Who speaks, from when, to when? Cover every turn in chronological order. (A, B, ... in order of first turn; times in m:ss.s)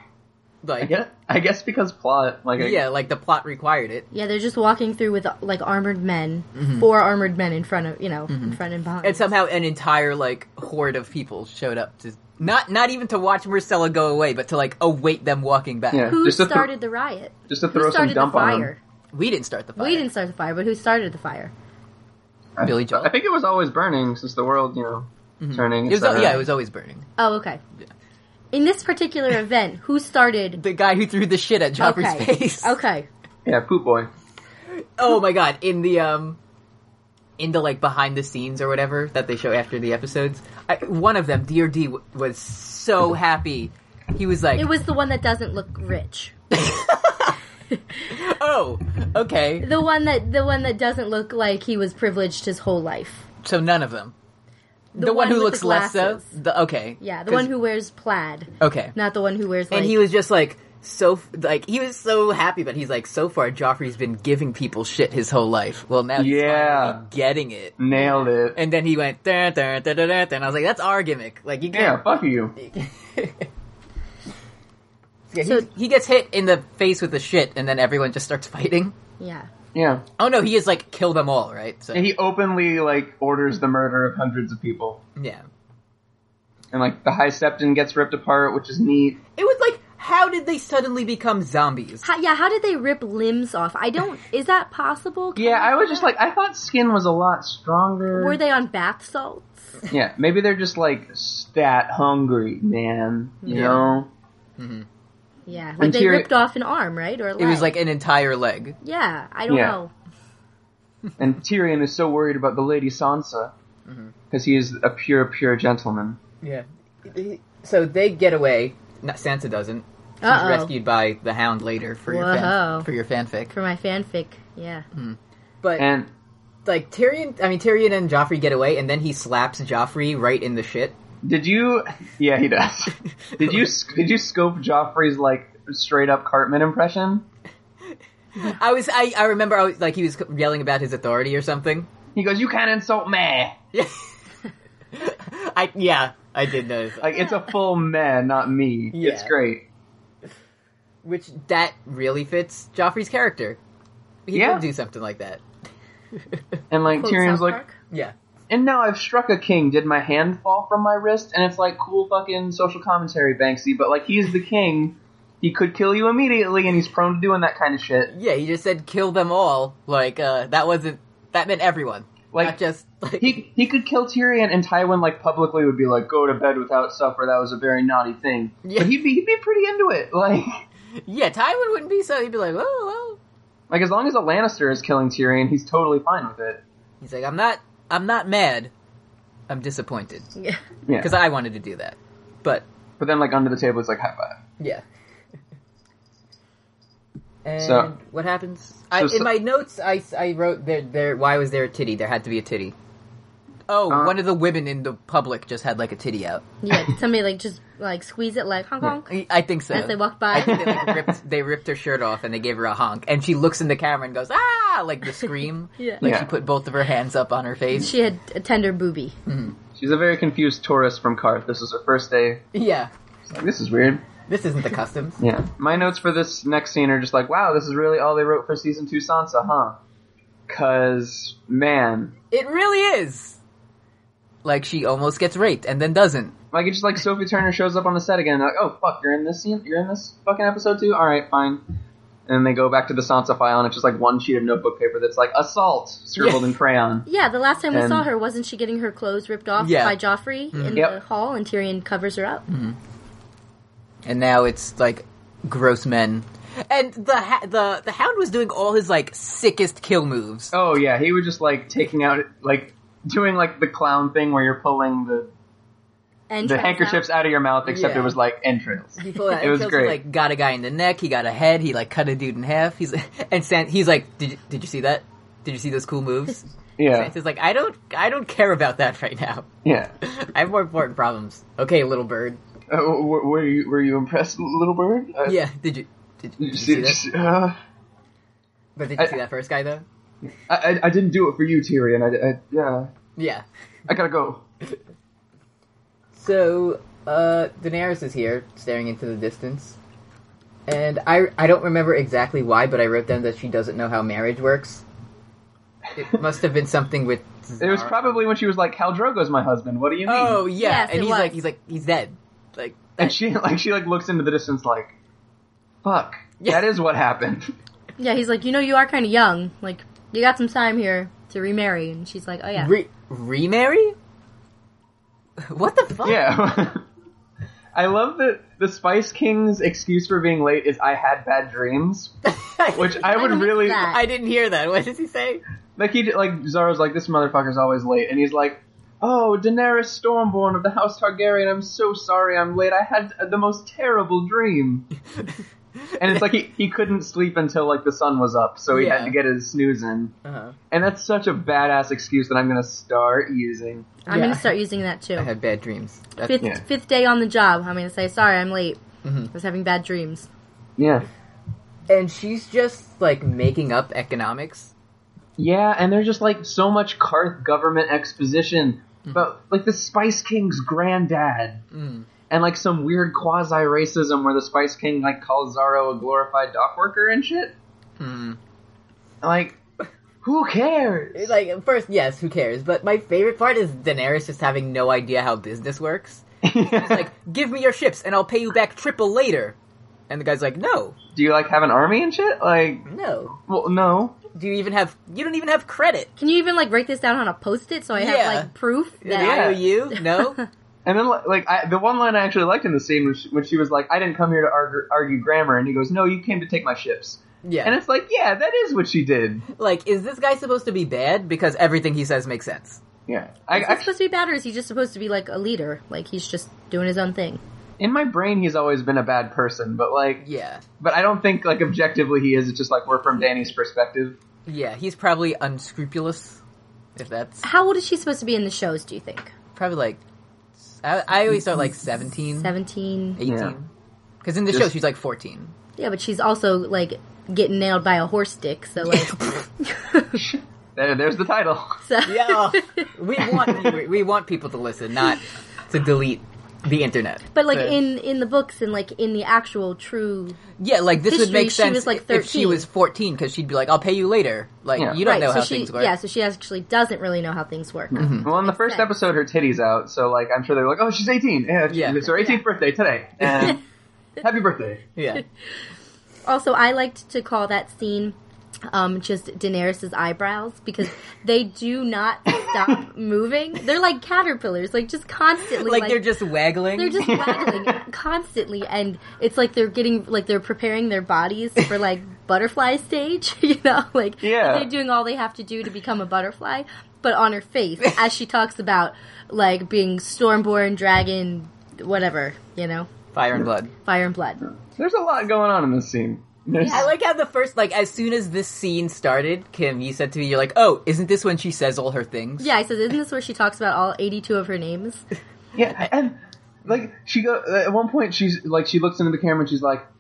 0:00.6-0:00.9 A
0:00.8-0:02.8 B
0:02.6-0:04.1 A
0:04.1-0:09.3 C
0:06.6-0:06.8 A
0:08.3-0:16.2 A
0:15.9-0:16.7 B
0:16.1-0:18.8 C
0:17.5-0:18.7 B
0:19.1-0:20.1 A
0:19.8-0:21.5 C
0:22.6-0:26.5 B
0:22.6-0:23.1 A
0:25.4-0:27.1 A
0:27.2-0:27.6 C
0:28.5-0:30.6 C
0:30.6-0:32.8 A
0:31.8-0:33.1 C
0:33.4-0:34.1 B
0:35.0-0:36.4 A
0:37.4-0:44.7 A
0:44.6-0:46.4 C
0:46.5-0:47.4 A
0:47.7-0:48.0 C
0:48.0-0:49.7 A
0:49.6-0:53.2 C
0:53.4-0:54.1 A
0:55.0-0:56.3 C
0:55.0-0:57.5 A
0:57.0-1:00.0 C
0:58.6-0:59.0 A
0:59.7-1:07.8 A
1:06.2-1:07.0 B
1:07.8-1:08.6 B
1:07.9-1:08.3 C
1:08.6-1:12.0 A
1:11.7-1:12.5 B
1:12.6-1:13.5 A
1:15.3-1:18.9 A
1:15.4-1:15.7 C
1:19.2-1:19.5 C
1:19.7-1:20.0 B
1:20.2-1:22.1 A
1:21.9-1:25.0 B
1:25.2-1:25.4 A
1:26.7-1:29.2 B
1:29.4-1:32.1 A
1:32.0-1:36.1 C
1:35.4-1:38.4 B
1:38.1-1:39.7 C
1:39.9-1:44.1 B
1:43.4-1:43.8 C
1:43.5-1:43.8 A
1:44.6-1:44.9 A
1:45.5-1:47.7 C
1:45.8-1:46.3 B
1:47.4-1:48.8 A
1:48.8-1:49.9 C
1:49.5-1:49.8 B
1:51.2-1:53.5 B
1:53.9-1:54.1 A
1:54.3-1:56.2 B
1:56.4-2:03.5 A
2:00.2-2:00.7 C
2:02.1-2:02.9 C
2:03.5-2:04.9 C
2:05.0-2:05.9 A
2:05.8-2:06.1 B
2:06.6-2:11.0 A
2:11.2-2:17.2 B
2:13.2-2:13.6 A
2:18.4-2:21.9 A
2:22.2-2:23.6 B
2:23.7-2:24.3 A
2:24.9-2:27.1 A
2:27.0-2:29.6 B
2:28.9-2:29.3 A
2:31.0-2:33.6 A
2:34.3-2:35.4 A
2:34.3-2:34.6 B
2:36.2-2:36.6 A
2:36.7-2:37.6 B
2:37.0-2:37.8 C
2:38.5-2:48.1 B
2:48.1-2:53.4 A
2:53.2-3:00.6 B
2:58.6-2:59.0 A
3:01.0-3:03.2 A
3:03.7-3:06.6 B
3:07.0-3:08.7 A
3:09.5-3:10.3 A
3:10.9-3:11.2 B
3:11.0-3:12.7 A
3:13.0-3:14.4 B
3:17.4-3:22.8 A
3:17.6-3:17.9 B
3:19.0-3:19.3 B
3:23.7-3:26.4 A
3:23.9-3:24.2 B
3:26.6-3:29.1 C
3:29.0-3:37.9 A
3:29.7-3:31.0 C
3:36.0-3:36.3 B
3:37.8-3:39.2 C
3:39.3-3:39.6 A
3:39.8-3:42.4 B
3:42.5-3:42.9 A
3:43.3-3:44.0 B
3:44.3-3:45.2 A
3:45.2-3:49.8 B
3:50.5-3:52.1 B
3:52.3-3:53.4 A
3:54.4-3:56.4 A
3:56.5-4:01.6 B
4:02.3-4:07.1 B
4:06.2-4:06.5 A
4:07.1-4:12.4 C
4:07.7-4:08.1 B
4:09.6-4:10.0 A
4:10.5-4:10.8 A
4:12.5-4:12.8 A
4:14.0-4:20.5 A
4:20.5-4:25.3 B
4:26.3-4:27.0 C
4:26.4-4:30.0 B
4:27.7-4:28.2 A
4:29.0-4:39.5 A
4:36.8-4:37.1 B
4:39.6-4:39.9 B
4:40.0-4:42.4 A
4:42.7-4:45.4 B
4:45.2-4:47.0 A
4:46.4-4:47.6 B
4:48.8-4:49.8 A
4:50.5-4:52.9 B
4:53.2-4:53.4 A
4:53.9-4:54.4 B
4:56.1-4:59.8 A
5:00.7-5:04.8 A
5:06.0-5:08.2 A
5:07.6-5:10.4 B
5:10.1-5:13.2 A
5:10.6-5:11.4 C
5:13.0-5:14.9 B
5:15.8-5:17.5 B
5:16.4-5:16.7 A
5:18.0-5:22.7 C
5:22.6-5:24.0 A
5:25.5-5:26.2 A
5:26.0-5:26.8 B
5:27.7-5:32.1 B
5:32.2-5:35.4 A
5:32.7-5:33.9 B
5:32.9-5:34.0 C
5:35.8-5:44.9 B
5:45.2-5:46.2 A
5:46.0-5:50.1 B
5:48.7-5:49.2 A
5:50.2-5:50.6 A
5:50.7-5:53.9 B
5:54.1-5:55.3 C
5:54.1-5:54.5 A
5:55.2-5:56.4 A
5:56.2-6:00.3 C
5:59.0-5:59.3 A
6:00.8-6:01.1 B
6:01.9-6:04.7 A
6:05.4-6:11.6 B
6:11.7-6:12.1 A
6:12.3-6:17.6 B
6:18.0-6:18.4 A
6:19.2-6:19.6 B
6:20.2-6:21.3 B
6:21.2-6:29.6 A
6:26.4-6:27.1 B
6:30.1-6:31.0 A
6:31.1-6:32.9 B
6:32.9-6:33.4 A
6:33.5-6:34.2 B
6:34.3-6:36.1 A
6:36.2-6:40.3 C
6:38.0-6:38.5 A
6:39.0-6:40.4 A
6:39.2-6:39.7 B
6:40.8-6:49.5 B
6:47.4-6:47.8 A
6:49.6-6:52.8 A
6:53.1-6:53.9 B
6:53.5-6:57.4 C
6:57.8-7:00.2 B
7:00.2-7:00.6 A
7:00.8-7:04.2 B
7:04.5-7:06.4 A
7:07.0-7:07.5 A
7:07.4-7:09.3 C
7:09.6-7:10.0 A
7:10.7-7:12.5 A
7:12.4-7:13.2 C
7:13.2-7:13.7 A
7:13.3-7:13.6 B
7:14.2-7:15.5 A
7:15.8-7:20.2 C
7:20.2-7:21.8 B
7:21.8-7:22.9 C
7:22.0-7:27.3 A
7:27.3-7:30.4 C
7:30.6-7:35.9 A
7:31.0-7:32.6 C
7:34.8-7:35.0 B
7:35.0-7:38.9 C
7:37.9-7:43.6 B
7:38.0-7:38.3 A
7:41.7-7:42.1 A
7:42.1-7:42.4 C
7:43.2-7:43.6 A
7:44.2-7:44.8 B
7:45.0-7:45.2 A
7:46.2-7:48.2 C
7:48.7-7:56.0 C
7:55.6-7:57.2 A
7:56.8-8:12.9 C
7:57.0-7:57.8 B
8:04.2-8:04.7 B
8:13.1-8:13.7 A
8:13.8-8:14.4 C
8:14.7-8:16.9 B
8:16.6-8:22.5 A
8:22.4-8:25.0 C
8:25.6-8:29.9 B